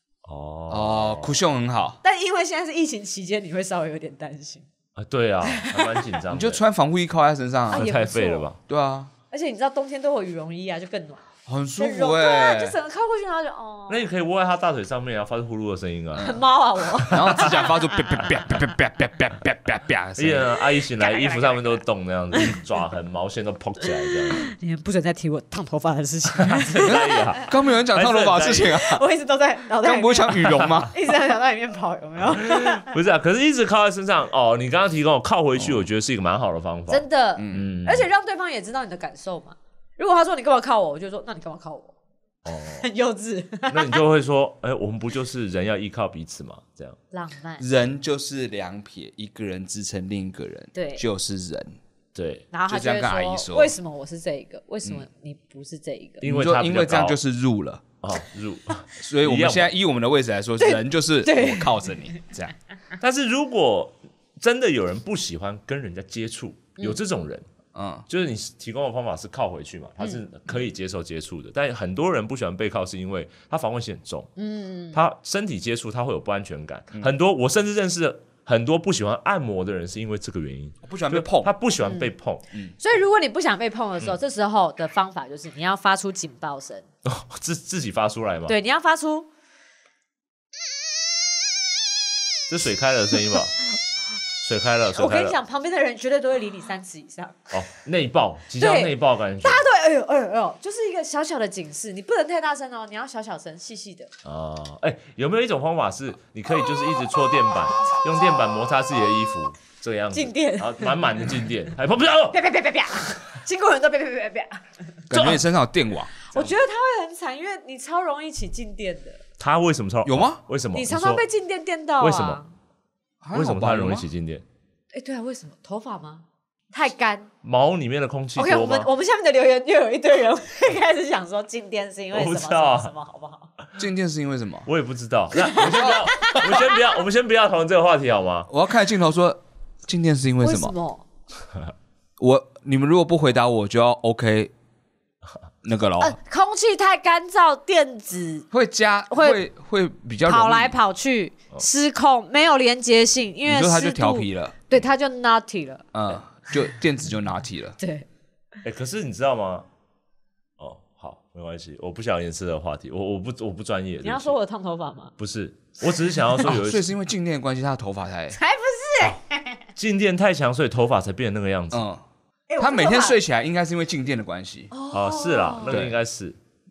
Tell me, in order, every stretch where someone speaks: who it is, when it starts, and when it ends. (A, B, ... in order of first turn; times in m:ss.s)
0:00.2-0:01.4 A
0:00.7-0:02.0 B
0:02.0-0:04.6 C
0:05.0-0:06.6 A
0:05.4-0:06.1 C
0:06.3-0:07.9 B
0:07.7-0:08.5 C
0:07.7-0:08.6 A
0:08.7-0:09.1 B
0:09.3-0:11.2 C
0:11.5-0:12.8 B
0:11.8-0:14.1 C
0:13.9-0:16.4 A
0:16.2-0:18.3 C
0:16.9-0:17.6 A
0:17.1-0:20.5 B
0:20.2-0:24.5 A
0:20.9-0:21.8 C
0:22.3-0:22.6 C
0:24.0-0:27.4 C
0:26.4-0:28.8 A
0:27.5-0:29.0 B
0:28.6-0:32.9 C
0:29.8-0:30.9 B
0:30.4-0:30.9 A
0:32.3-0:38.1 A
0:36.9-0:41.9 C
0:37.4-0:37.7 B
0:42.4-0:42.8 A
0:42.6-0:44.0 C
0:43.7-0:47.0 A
0:47.1-0:47.6 C
0:47.6-0:51.8 B
0:50.7-0:51.0 C
0:52.1-0:52.4 A
0:52.5-0:56.2 C
0:52.7-0:53.7 B
0:56.2-0:57.2 A
0:56.2-0:57.9 B
0:58.0-0:59.7 A
0:59.0-1:02.5 B
1:00.6-1:01.9 C
1:03.0-1:07.4 A
1:07.7-1:08.0 B
1:08.1-1:14.3 A
1:14.4-1:15.0 C
1:14.9-1:22.4 A
1:20.8-1:21.5 B
1:21.8-1:22.1 C
1:22.8-1:26.8 C
1:27.0-1:28.5 A
1:28.5-1:29.3 C
1:32.5-1:33.6 A
1:34.4-1:35.4 A
1:34.9-1:37.5 C
1:37.5-1:39.6 A
1:38.6-1:44.1 C
1:44.2-1:52.4 A
1:50.1-1:51.1 C
1:52.3-1:54.6 C
1:55.1-1:56.3 B
1:55.1-1:55.4 A
1:56.2-1:59.2 C
1:59.4-2:01.2 A
2:00.0-2:00.4 B
2:00.7-2:02.5 C
2:02.0-2:02.4 A
2:03.2-2:04.1 B
2:03.3-2:04.4 A
2:04.9-2:07.3 C
2:07.4-2:08.9 A
2:08.4-2:13.5 C
2:12.1-2:12.9 A
2:13.8-2:14.7 B
2:14.7-2:18.5 A
2:15.3-2:16.8 C
2:18.5-2:20.7 B
2:20.4-2:21.0 C
2:22.2-2:24.5 B
2:25.6-2:26.2 B
2:26.0-2:28.5 C
2:28.5-2:30.8 B
2:29.1-2:29.4 C
2:30.2-2:35.9 C
2:33.4-2:34.5 B
2:35.9-2:37.8 B
2:37.8-2:38.0 C
2:38.6-2:39.6 A
2:40.6-2:44.3 A
2:44.0-2:45.1 C
2:45.2-2:46.9 A
2:46.4-2:48.4 B
2:48.3-2:49.6 C
2:49.8-2:51.8 A
2:51.7-2:52.0 B
2:52.5-2:53.2 C
2:52.6-2:54.7 B
2:54.7-2:55.8 C
2:54.9-2:56.4 A
2:55.7-2:56.0 B